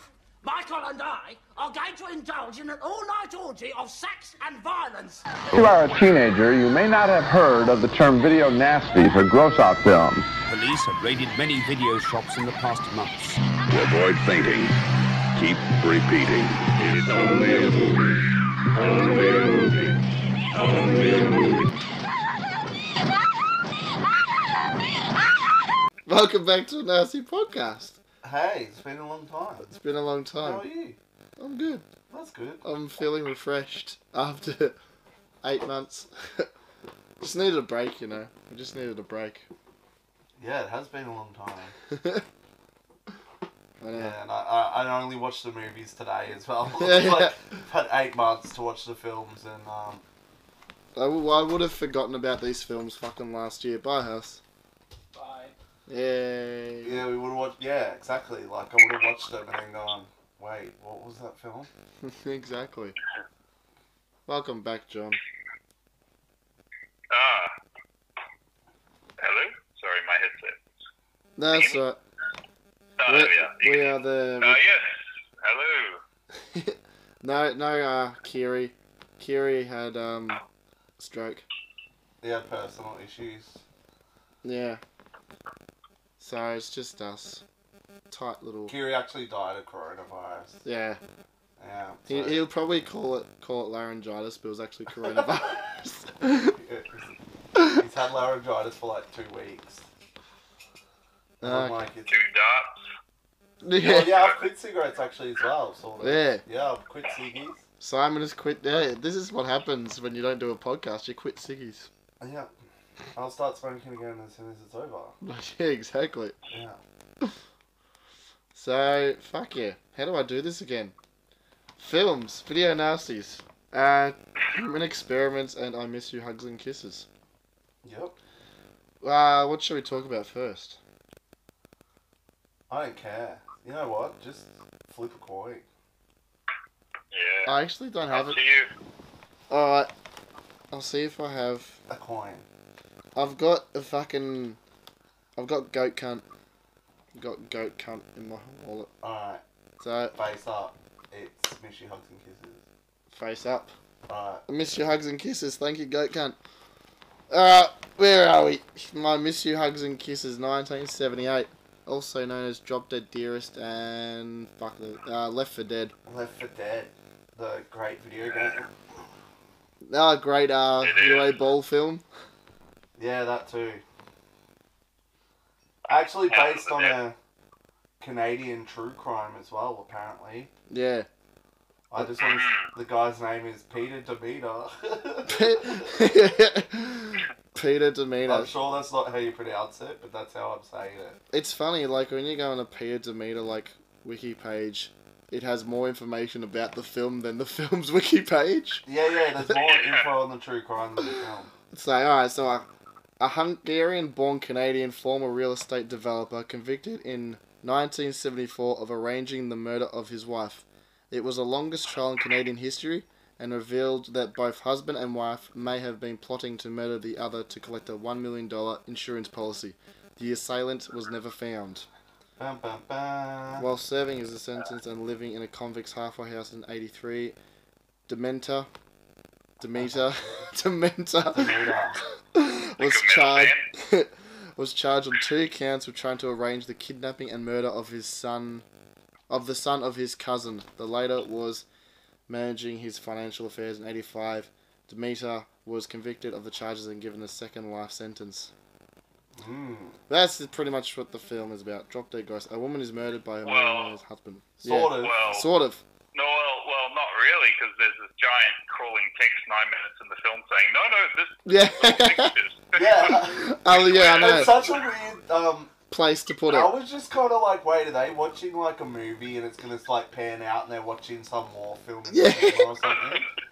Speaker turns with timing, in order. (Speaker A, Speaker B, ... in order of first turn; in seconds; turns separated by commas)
Speaker A: 0.4-5.4, Speaker B: 5.5-10.3, Speaker C: 10.5-13.4, Speaker D: 13.7-14.8, Speaker D: 15.3-18.1, Speaker D: 18.7-19.9, Speaker D: 20.5-21.7, Speaker E: 26.1-28.0, Speaker F: 28.2-29.7, Speaker E: 29.6-30.6, Speaker F: 30.4-31.0, Speaker E: 31.4-31.8, Speaker F: 32.1-32.6, Speaker E: 32.6-34.8, Speaker E: 35.4-36.5, Speaker E: 37.2-39.5, Speaker F: 40.4-41.8, Speaker E: 41.9-42.2, Speaker E: 43.8-44.2, Speaker F: 43.9-50.0, Speaker E: 46.7-47.3, Speaker E: 51.0-54.4, Speaker E: 55.9-57.0, Speaker F: 56.8-61.7, Speaker E: 62.0-63.0, Speaker E: 64.3-65.2, Speaker G: 67.1-67.5, Speaker G: 69.2-70.6, Speaker E: 71.4-72.0, Speaker G: 71.5-71.8, Speaker G: 73.0-76.0, Speaker E: 73.1-74.6, Speaker E: 76.4-80.4, Speaker E: 81.0-81.4, Speaker F: 82.2-83.6, Speaker E: 84.4-84.8, Speaker E: 86.2-87.4, Speaker E: 88.1-88.8, Speaker F: 88.7-90.6, Speaker E: 90.6-91.0, Speaker F: 91.6-92.4, Speaker E: 92.1-96.5, Speaker F: 95.1-95.5, Speaker F: 96.4-99.8, Speaker F: 101.4-102.1, Speaker E: 101.4-101.8, Speaker G: 102.1-102.8, Speaker E: 103.6-104.2, Speaker F: 103.8-107.6, Speaker E: 106.0-106.4, Speaker E: 107.8-111.9, Speaker F: 112.2-112.5, Speaker F: 113.1-115.1, Speaker E: 115.2-116.3, Speaker F: 116.5-116.8, Speaker E: 118.5-120.9, Speaker E: 121.8-127.1, Speaker F: 127.8-128.2, Speaker E: 129.0-130.8, Speaker F: 132.7-135.7, Speaker G: 137.1-137.6, Speaker E: 137.4-138.4, Speaker G: 138.1-138.7, Speaker E: 139.5-139.9, Speaker E: 140.7-141.8, Speaker F: 141.9-142.4, Speaker E: 143.2-144.6, Speaker E: 145.3-146.2, Speaker E: 147.1-148.9, Speaker F: 149.0-149.4, Speaker E: 149.8-150.1, Speaker F: 150.1-152.6, Speaker E: 153.1-153.7, Speaker F: 154.1-154.4, Speaker E: 154.5-156.4, Speaker E: 157.3-165.9, Speaker F: 166.1-168.7, Speaker E: 169.8-172.0, Speaker G: 170.8-171.3, Speaker F: 173.0-173.8, Speaker F: 175.8-177.1, Speaker G: 176.2-177.0, Speaker F: 178.0-180.5, Speaker E: 180.7-181.1, Speaker F: 181.9-186.2, Speaker G: 182.2-182.7, Speaker E: 185.2-188.5, Speaker F: 188.3-191.2, Speaker E: 191.3-198.8, Speaker F: 198.8-201.5, Speaker G: 199.5-200.1, Speaker E: 201.7-202.7, Speaker E: 203.2-221.9, Speaker F: 222.4-223.7, Speaker E: 223.6-227.3, Speaker E: 228.1-228.7, Speaker E: 229.6-231.7, Speaker F: 231.3-232.0, Speaker E: 232.3-238.6, Speaker G: 232.8-233.7, Speaker E: 239.3-241.6, Speaker E: 242.3-248.5, Speaker F: 249.3-250.0, Speaker E: 250.1-255.8, Speaker G: 253.4-253.9, Speaker F: 254.6-255.2, Speaker G: 254.9-255.5, Speaker G: 256.1-264.9, Speaker E: 261.4-262.4, Speaker F: 262.7-265.7, Speaker E: 263.1-264.6, Speaker E: 265.9-266.7, Speaker F: 266.5-273.3, Speaker E: 272.1-272.8, Speaker G: 272.8-273.2